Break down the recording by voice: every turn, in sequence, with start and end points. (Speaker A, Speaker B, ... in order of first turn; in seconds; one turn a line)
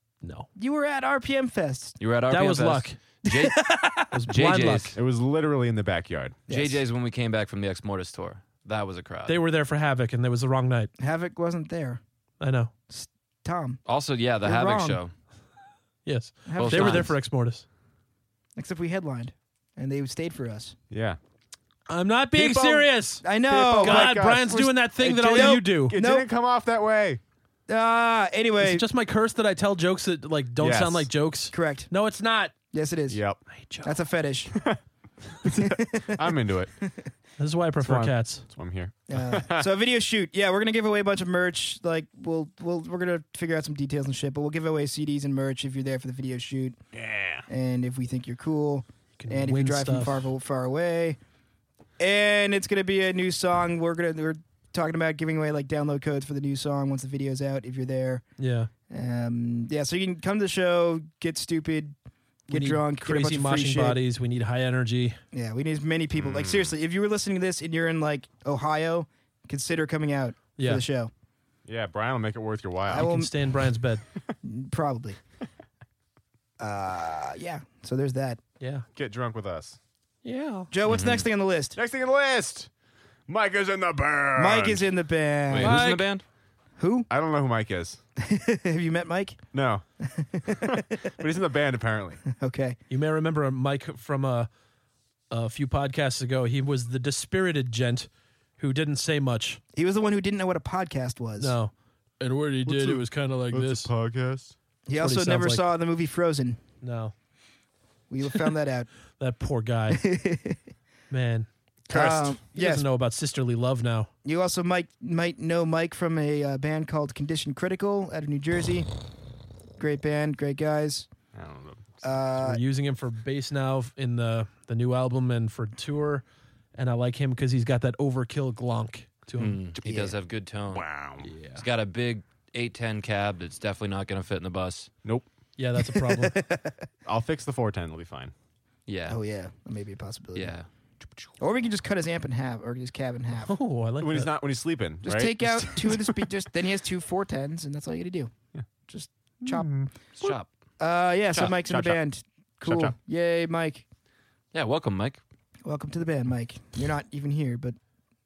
Speaker A: 0.2-0.5
Speaker B: 0.6-2.0
Speaker C: 2.0-3.8
Speaker A: 2.3-3.0
Speaker B: 3.3-4.0
Speaker A: 4.1-5.0
Speaker C: 4.3-5.0
Speaker D: 5.0-6.4
Speaker B: 6.5-6.8
Speaker C: 6.5-9.4
Speaker A: 9.3-10.9
Speaker B: 11.0-12.0
Speaker A: 12.4-12.7
Speaker B: 12.9-13.8
Speaker C: 13.9-15.1
Speaker B: 14.4-15.0
Speaker A: 16.1-17.6
Speaker B: 16.5-17.1
Speaker C: 16.6-17.1
Speaker B: 18.6-20.8
Speaker D: 20.9-21.2
Speaker A: 21.9-26.0
Speaker D: 22.4-27.2
Speaker B: 23.2-24.2
Speaker B: 25.3-26.3
Speaker B: 27.7-28.9
Speaker A: 28.6-32.5
Speaker D: 30.6-31.1
Speaker B: 31.5-31.9
Speaker B: 32.7-33.2
Speaker D: 33.1-33.4
Speaker A: 33.5-33.9
Speaker B: 33.8-34.5
Speaker D: 34.5-34.8
Speaker D: 35.4-36.7
Speaker B: 35.6-37.1
Speaker A: 37.4-38.5
Speaker D: 37.8-39.7
Speaker B: 39.1-46.8
Speaker D: 46.9-47.5
Speaker B: 47.5-51.2
Speaker A: 49.2-50.3
Speaker B: 52.0-58.2
Speaker A: 58.4-58.7
Speaker B: 58.9-62.0
Speaker B: 62.5-64.0
Speaker A: 62.5-65.2
Speaker B: 65.3-71.1
Speaker D: 66.2-66.7
Speaker A: 70.6-70.8
Speaker D: 71.7-73.1
Speaker B: 72.9-73.3
Speaker A: 72.9-74.0
Speaker B: 74.4-75.2
Speaker B: 76.6-78.4
Speaker A: 78.6-78.9
Speaker D: 79.0-79.8
Speaker A: 80.2-80.7
Speaker B: 80.7-81.8
Speaker C: 80.9-81.2
Speaker D: 81.8-82.7
Speaker D: 83.3-84.9
Speaker B: 84.4-85.8
Speaker C: 85.5-86.2
Speaker A: 85.6-86.1
Speaker B: 86.8-87.1
Speaker D: 87.1-88.0
Speaker B: 88.2-89.4
Speaker D: 89.5-89.8
Speaker B: 90.0-90.8
Speaker D: 90.5-92.2
Speaker B: 92.4-92.8
Speaker A: 92.9-94.5
Speaker A: 95.3-99.6
Speaker B: 99.8-101.5
Speaker A: 101.4-103.9
Speaker D: 102.7-104.5
Speaker B: 104.9-106.6
Speaker A: 105.0-105.6
Speaker A: 106.8-107.1
Speaker B: 108.1-108.9
Speaker A: 109.2-110.0
Speaker B: 109.9-110.6
Speaker A: 111.1-114.1
Speaker B: 111.9-112.9
Speaker B: 114.2-118.9
Speaker B: 119.8-121.1
Speaker D: 121.3-122.0
Speaker B: 122.0-122.6
Speaker A: 122.4-129.6
Speaker C: 129.4-130.9
Speaker B: 129.8-130.1
Speaker D: 130.7-131.3
Speaker A: 131.2-131.7
Speaker C: 131.6-134.9
Speaker A: 135.6-136.4
Speaker B: 135.9-136.8
Speaker D: 137.1-138.3
Speaker C: 138.9-139.2
Speaker B: 139.1-140.5
Speaker C: 140.3-140.7
Speaker B: 141.4-143.5
Speaker A: 143.4-144.3
Speaker D: 144.0-146.3
Speaker B: 145.0-148.3
Speaker B: 148.9-149.7
Speaker D: 149.4-150.4
Speaker C: 150.2-150.5
Speaker B: 150.8-153.8
Speaker D: 151.3-152.0
Speaker D: 152.6-152.9
Speaker C: 154.5-155.2
Speaker B: 155.7-157.8